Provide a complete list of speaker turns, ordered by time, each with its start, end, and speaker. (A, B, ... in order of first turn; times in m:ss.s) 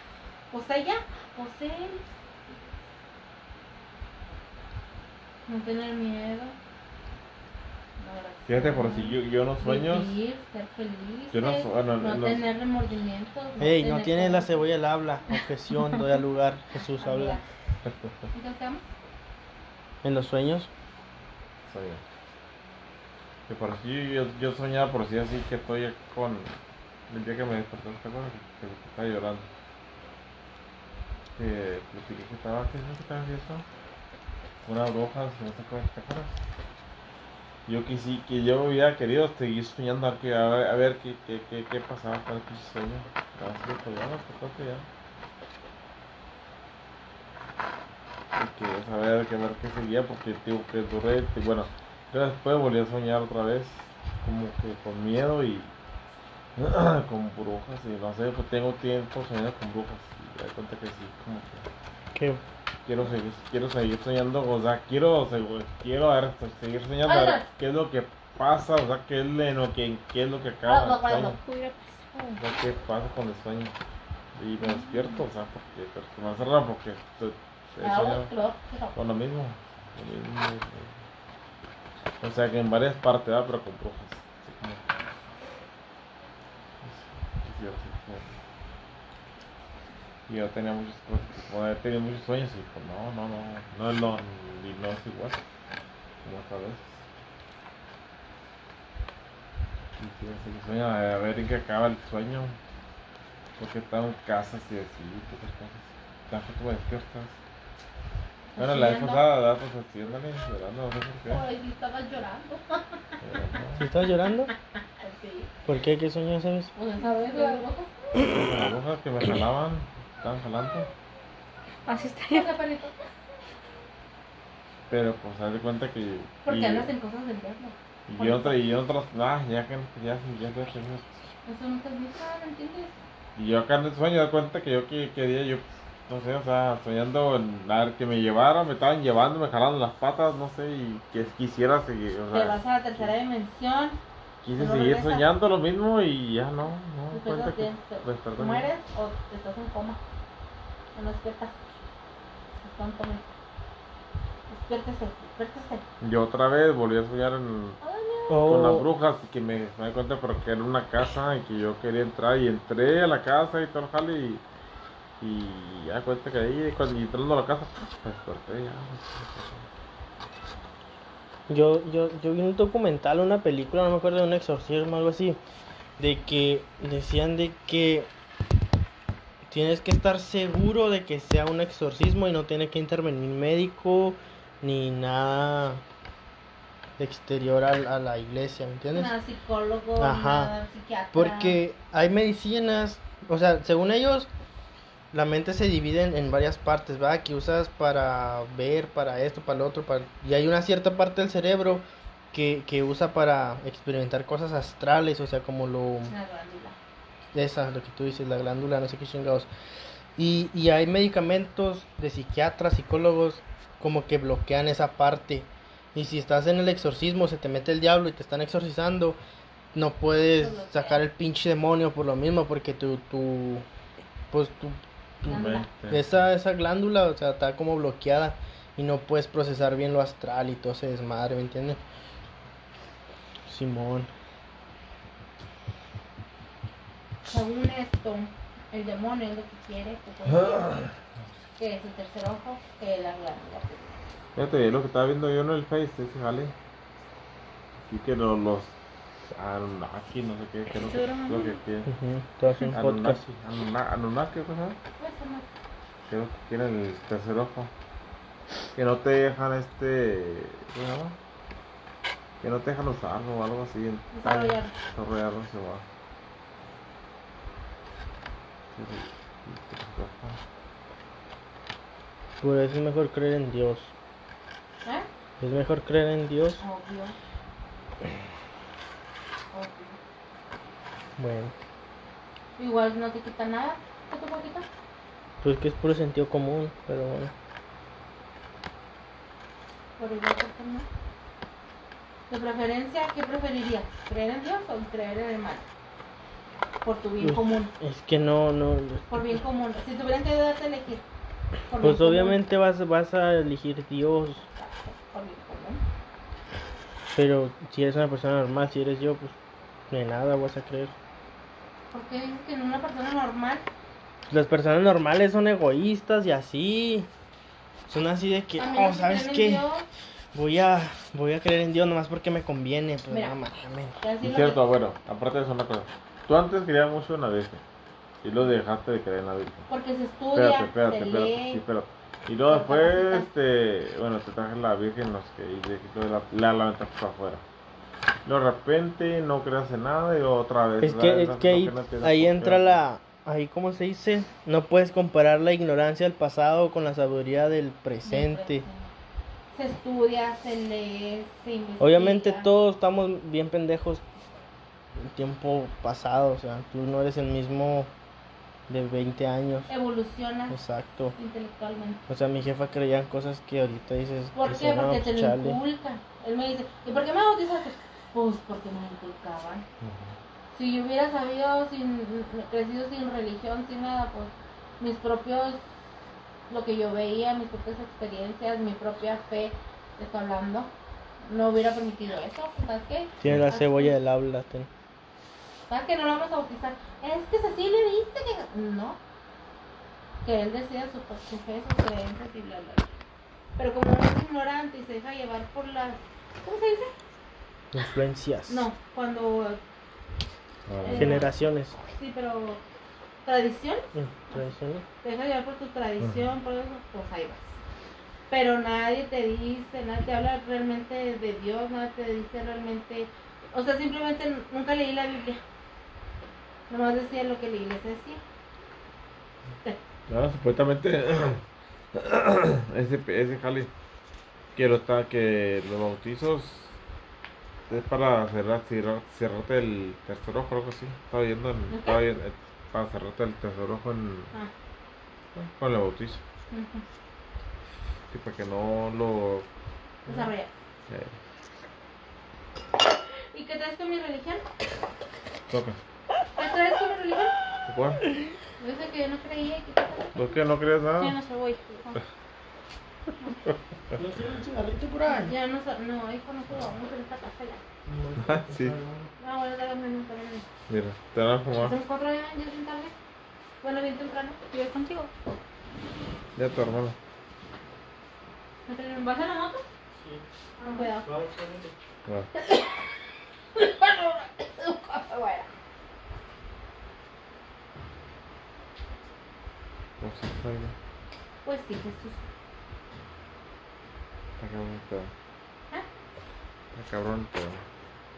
0:00.5-0:02.0 A
0:05.5-0:06.6 A
0:08.0-0:14.6 A
0:08.5-0:10.1 B
0:11.3-0:12.4 B
0:13.6-0:17.4 C
0:17.0-0:17.4 A
0:17.8-0:18.1 B
0:18.3-0:18.9 A
0:20.0-0:20.7 C
0:21.7-0:22.0 B
0:23.5-0:26.5 B
0:27.1-0:29.5 B
0:31.4-0:33.6 B
0:34.6-0:36.4 B
0:37.7-0:44.9 B
0:48.4-0:55.7 B
0:56.6-1:01.7 B
1:02.2-1:02.4 C
1:02.8-1:11.4 B
1:07.0-1:07.5 A
1:10.6-1:11.4 A
1:11.4-1:12.4 D
1:12.4-1:13.8 B
1:14.4-1:18.3 B
1:14.6-1:15.2 A
1:17.8-1:19.0 A
1:18.9-1:21.0 B
1:22.2-1:25.1 B
1:26.8-1:28.4 B
1:30.3-1:35.4 B
1:36.2-1:37.0 B
1:40.0-1:42.6 B
1:43.6-1:47.4 B
1:48.6-1:49.2 A
1:48.6-1:51.4 B
1:51.3-1:53.2 A
1:53.2-1:53.8 B
1:53.8-1:54.5 C
1:55.0-1:55.5 A
1:55.7-1:56.7 C
1:56.8-1:57.9 A
1:57.3-1:57.6 D
1:58.1-2:00.9 B
2:01.9-2:02.5 D
2:02.3-2:03.0 A
2:04.9-2:06.9 B
2:06.4-2:08.6 A
2:08.1-2:11.2 B
2:11.5-2:13.0 A
2:13.4-2:23.1 B
2:22.3-2:24.0 A
2:24.4-2:28.7 B
2:24.6-2:25.3 A
2:27.1-2:30.0 A
2:30.9-2:31.6 A
2:32.6-2:33.3 A
2:34.5-2:35.8 A
2:36.0-2:37.8 B
2:37.8-2:38.6 A
2:38.3-2:38.9 C
2:38.4-2:44.4 B
2:45.2-2:49.7 B
2:51.5-2:55.4 C
2:56.0-2:58.1 C
2:59.5-3:05.8 C
3:07.0-3:09.2 C
3:08.9-3:11.6 A
3:10.0-3:10.5 C
3:11.1-3:14.3 C
3:15.1-3:26.1 C
3:26.1-3:26.8 A
3:27.3-3:29.5 C
3:30.2-3:39.2 C
3:39.7-3:43.7 C
3:40.4-3:41.0 A
3:44.3-3:51.8 C
3:45.3-3:45.7 A
3:45.3-3:46.1 B
3:53.5-3:54.1 C
3:57.3-4:00.8 A
4:00.4-4:00.9 B
4:01.6-4:03.9 A
4:04.4-4:06.5 B
4:07.9-4:08.7 B
4:09.3-4:11.9 B
4:10.8-4:11.6 D
4:11.9-4:13.2 C
4:12.7-4:14.8 B
4:15.0-4:15.5 A
4:16.1-4:17.7 B
4:18.8-4:21.2 B
4:22.4-4:25.8 B
4:24.1-4:24.7 A
4:28.7-4:30.4 B
4:32.4-4:33.9 C
4:35.4-4:36.6 C
4:36.6-4:37.2 A
4:39.5-4:40.0 A
4:41.2-4:41.6 C
4:42.6-4:44.7 A
4:45.4-4:47.3 C
4:50.0-4:50.9 A
4:52.3-4:55.7 A
4:56.8-4:57.7 A
4:57.2-4:59.4 C
4:59.1-5:01.0 A
5:01.7-5:02.4 A
5:01.8-5:04.5 C
5:04.6-5:05.8 A
5:07.2-5:09.4 C
5:09.9-5:10.9 C
5:11.9-5:13.6 A
5:14.3-5:17.1 C
5:17.9-5:19.6 C
5:18.6-5:19.9 A
5:20.3-5:24.0 C
5:23.1-5:23.4 A
5:24.0-5:24.6 A
5:24.2-5:27.6 B
5:28.2-5:29.7 B
5:29.7-5:31.6 A
5:30.4-5:37.4 B
5:32.5-5:33.3 A
5:38.2-5:42.8 B
5:40.8-5:48.6 C
5:48.0-5:48.9 A
5:49.5-5:52.5 A
5:51.8-5:54.0 C
5:55.0-5:57.9 C
5:58.7-5:59.7 C
5:59.7-6:00.6 A
6:00.5-6:01.2 C
6:01.2-6:02.0 A
6:02.1-6:05.6 C
6:04.4-6:09.7 A
6:09.8-6:10.1 B
6:10.5-6:15.6 A
6:16.5-6:20.7 A
6:21.2-6:24.0 A
6:23.2-6:24.7 C
6:25.7-6:29.0 A
6:30.2-6:32.9 A
6:33.6-6:36.9 A
6:37.7-6:38.6 C
6:38.5-6:39.6 A
6:40.7-6:41.2 B
6:40.8-6:41.3 A
6:40.9-6:41.8 C
6:41.9-6:42.6 A
6:43.2-6:44.4 A
6:43.9-6:44.8 C
6:45.0-6:47.6 A
6:46.0-6:46.3 B
6:48.3-6:55.4 A
6:56.7-6:58.2 A
7:00.1-7:03.7 B
7:04.6-7:06.7 B
7:07.7-7:14.3 B
7:11.7-7:12.0 A
7:15.4-7:16.2 B
7:16.5-7:16.8 A
7:18.1-7:19.5 B
7:20.1-7:20.5 A
7:20.9-7:21.2 B
7:23.3-7:24.4 A
7:25.5-7:25.8 B
7:26.4-7:27.3 A
7:27.7-7:28.0 B
7:28.6-7:30.2 A
7:30.2-7:31.2 B
7:31.0-7:32.0 D
7:33.4-7:34.0 B
7:34.0-7:35.3 C
7:35.0-7:37.6 A
7:37.9-7:39.1 C
7:38.2-7:38.8 B
7:39.2-7:40.5 A
7:40.7-7:41.8 B
7:41.6-7:42.9 A
7:43.6-7:44.4 A
7:44.5-7:45.1 D
7:46.4-7:47.0 B
7:48.7-7:49.6 A
7:50.0-7:50.2 C
7:50.6-7:51.1 A
7:51.0-7:51.8 C
7:52.4-7:52.8 A
7:53.6-7:55.5 A
8:00.0-8:00.8 B
8:01.4-8:02.2 A
8:04.4-8:05.1 B
8:06.7-8:07.6 B